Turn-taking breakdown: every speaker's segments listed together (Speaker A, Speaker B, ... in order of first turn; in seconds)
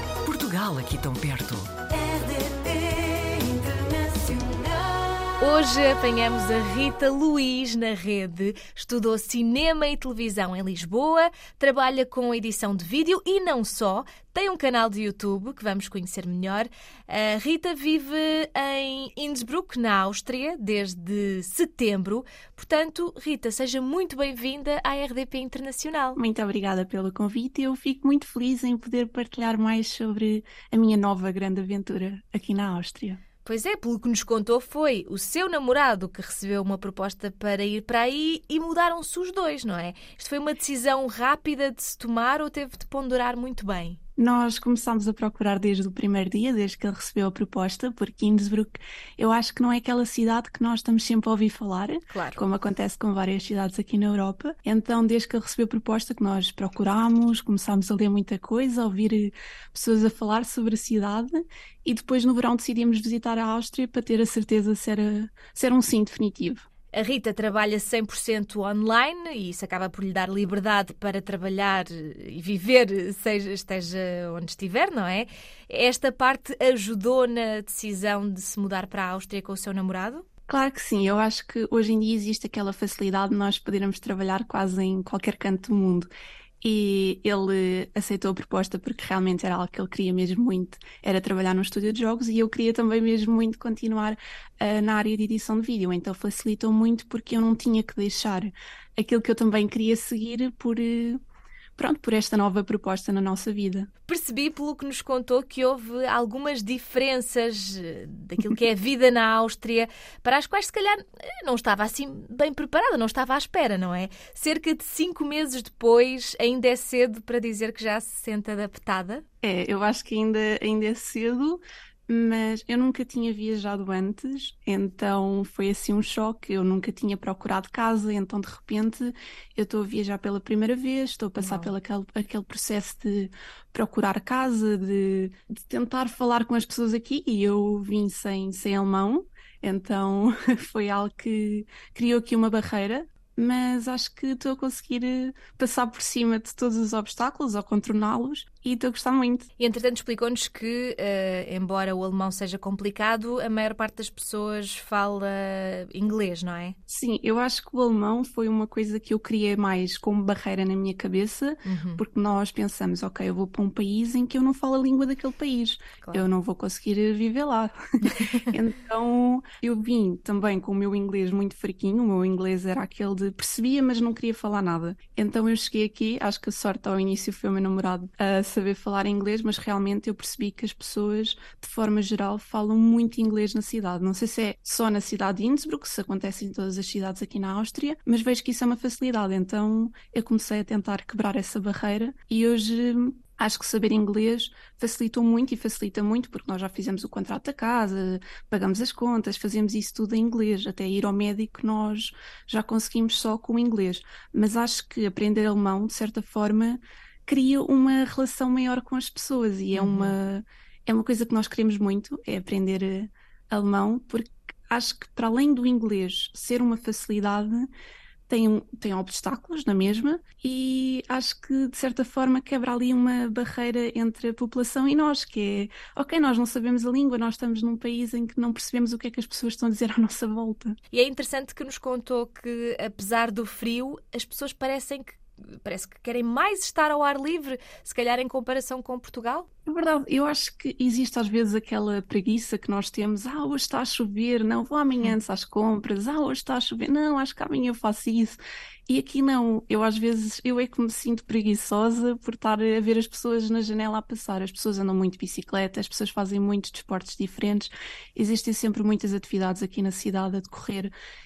Speaker A: 0.2-5.3
Speaker B: 5.4-26.2, 33.4-44.0, 52.1-52.4, 66.9-80.2, 104.0-119.2, 131.4-131.7, 149.6-156.8, 161.7-162.0, 166.0-166.3, 168.0-168.4, 209.7-210.2, 230.9-239.5
Speaker C: 26.2-33.2, 44.2-66.6, 80.5-86.1, 86.6-101.2, 101.8-103.9, 119.4-149.5, 156.9-217.7, 218.3-230.7, 239.7-260.9